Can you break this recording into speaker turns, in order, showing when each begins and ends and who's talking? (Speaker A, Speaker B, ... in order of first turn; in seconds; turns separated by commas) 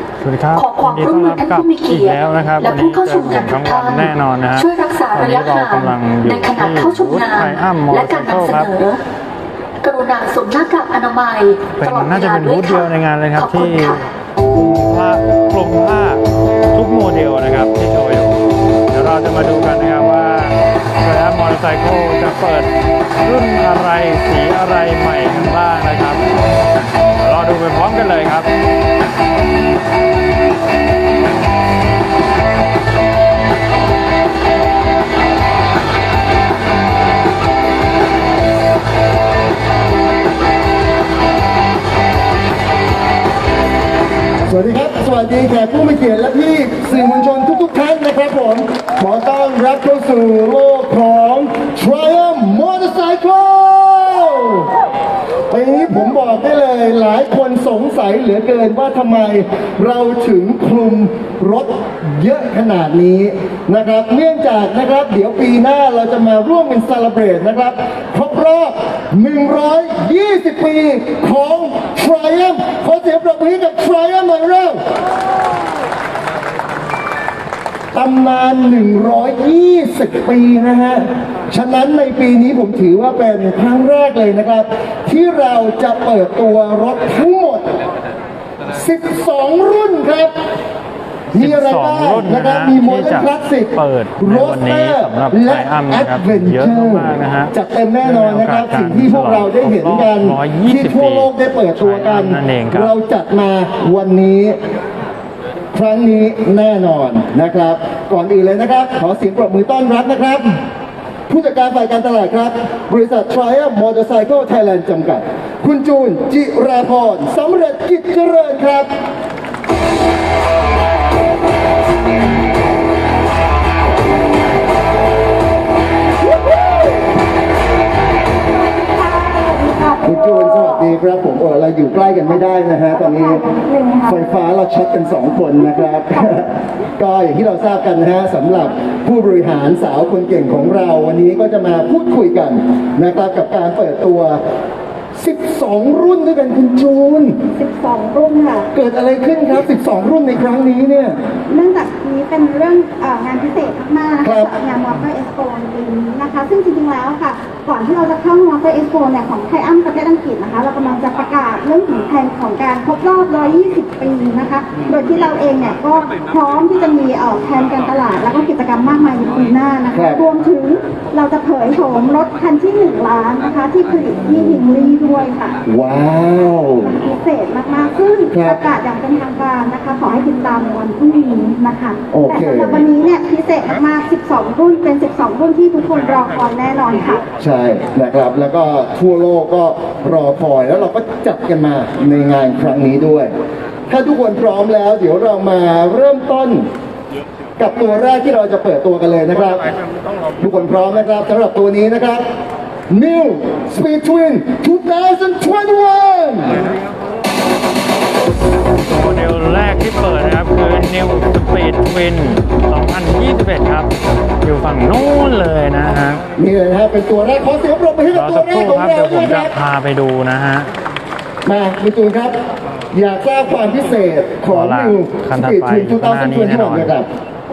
Speaker A: 0.2-8.8, Speaker B: 0.5-9.0, Speaker B: 9.8-14.0, Speaker A: 11.8-18.4, Speaker A: 18.9-22.7, Speaker A: 23.2-26.2, Speaker A: 27.2-28.5, Speaker C: 44.4-54.7, Speaker C: 55.5-74.8, Speaker C: 77.9-87.7, Speaker C: 88.7-90.3, Speaker A: 91.3-102.9, Speaker C: 91.3-104.6, Speaker C: 105.7-110.6, Speaker C: 111.3-118.9, Speaker D: 128.7-130.9, Speaker C: 130.0-133.4, Speaker D: 132.9-134.2, Speaker C: 134.1-144.4, Speaker C: 145.1-147.4, Speaker D: 147.5-148.7, Speaker C: 148.7-151.2, Speaker D: 151.5-175.6, Speaker C: 154.2-154.5, Speaker C: 169.9-170.2, Speaker C: 174.3-174.6, Speaker C: 175.7-176.9, Speaker D: 176.8-187.2, Speaker C: 178.3-178.6, Speaker C: 182.1-182.8, Speaker C: 187.4-193.3, Speaker C: 193.9-196.7, Speaker C: 197.6-199.6, Speaker C: 200.4-202.2, Speaker C: 202.9-206.6, Speaker A: 208.9-213.9, Speaker A: 214.4-216.2, Speaker C: 216.3-219.5, Speaker A: 218.1-220.7, Speaker C: 221.4-222.3, Speaker C: 222.9-227.1, Speaker A: 224.5-226.9